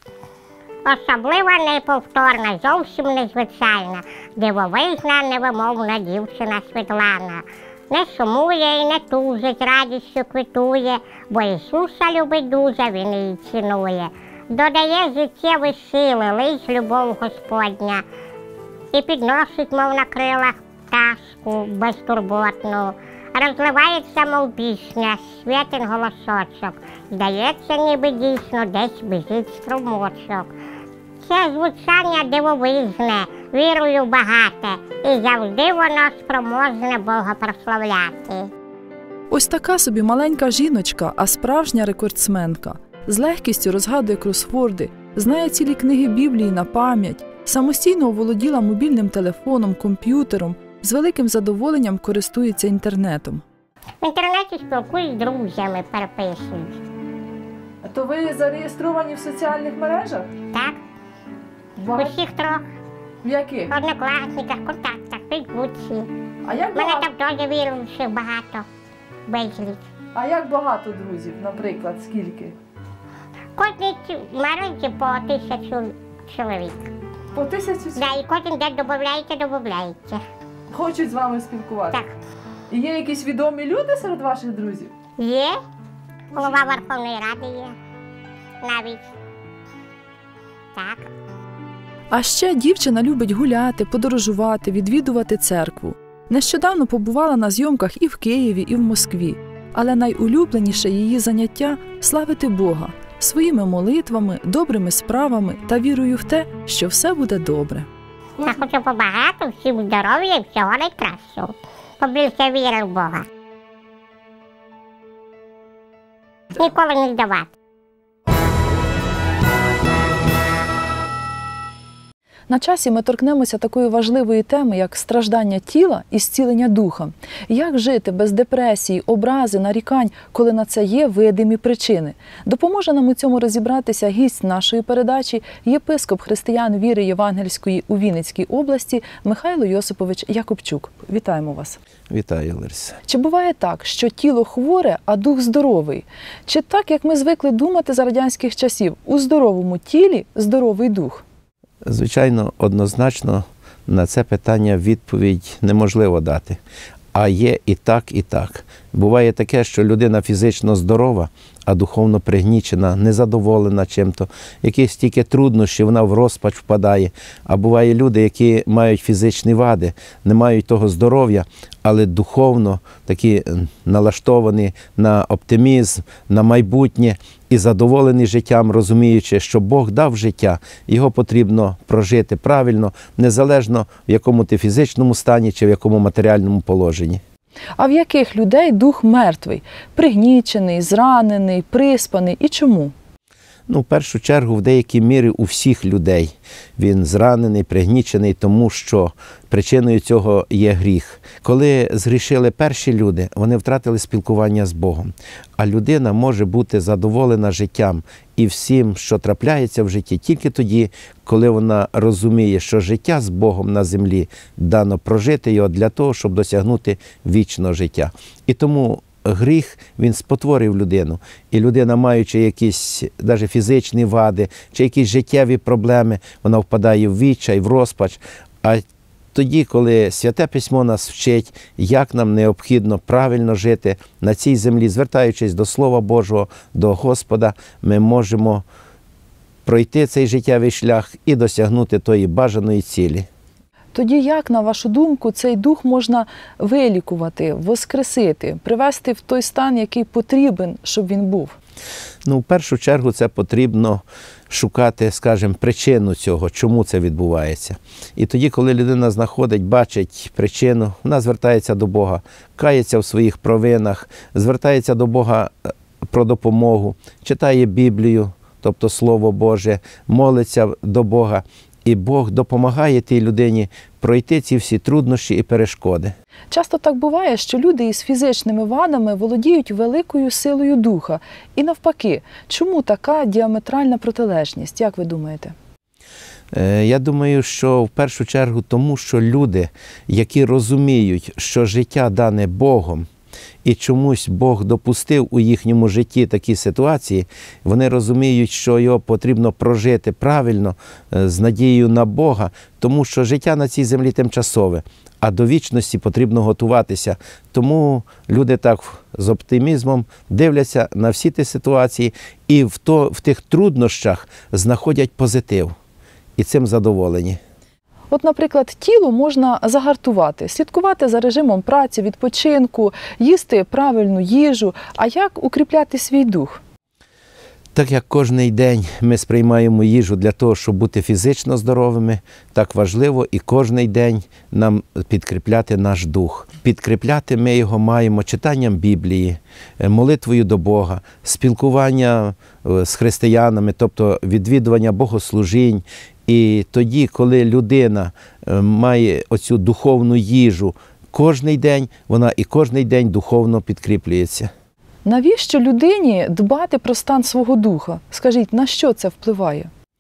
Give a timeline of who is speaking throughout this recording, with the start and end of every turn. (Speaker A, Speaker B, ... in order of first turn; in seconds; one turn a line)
Speaker A: 0.9-18.0
Speaker A: 18.9-30.5
Speaker A: 31.2-38.5
Speaker B: 39.3-53.4
Speaker A: 54.0-56.8
Speaker B: 57.8-60.3
Speaker A: 60.5-60.8
Speaker B: 61.8-62.2
Speaker A: 61.9-62.6
Speaker B: 63.2-63.7
Speaker A: 63.7-66.1
Speaker B: 66.5-67.1
Speaker A: 66.8-68.7
Speaker A: 69.3-69.9
Speaker B: 70.2-72.6
Speaker A: 73.6-76.9
Speaker B: 77.3-78.1
Speaker A: 78.0-80.2
Speaker B: 80.7-82.0
Speaker B: 82.7-84.9
Speaker A: 85.2-85.6
Speaker A: 86.3-87.8
Speaker A: 88.6-89.1
Speaker A: 90.8-91.1
Speaker B: 92.1-107.9
Speaker A: 108.4-113.3
Speaker A: 116.5-117.5
Speaker B: 122.5-141.8
Speaker C: 142.1-143.0
Speaker B: 143.1-151.2
Speaker C: 151.8-156.6
Speaker C: 157.1-187.2
Speaker B: 187.8-192.9
Speaker C: 193.7-238.7
Speaker C: 239.7-243.3
Speaker B: 243.9-251.6
Speaker C: 252.2-276.1
Speaker B: 276.5-285.6
Speaker C: 286.5-293.1
Speaker C: 293.6-315.7
Speaker C: 316.4-317.4
Speaker B: 318.1-326.6
Speaker C: 327.8-354.5
Speaker B: 355.1-359.7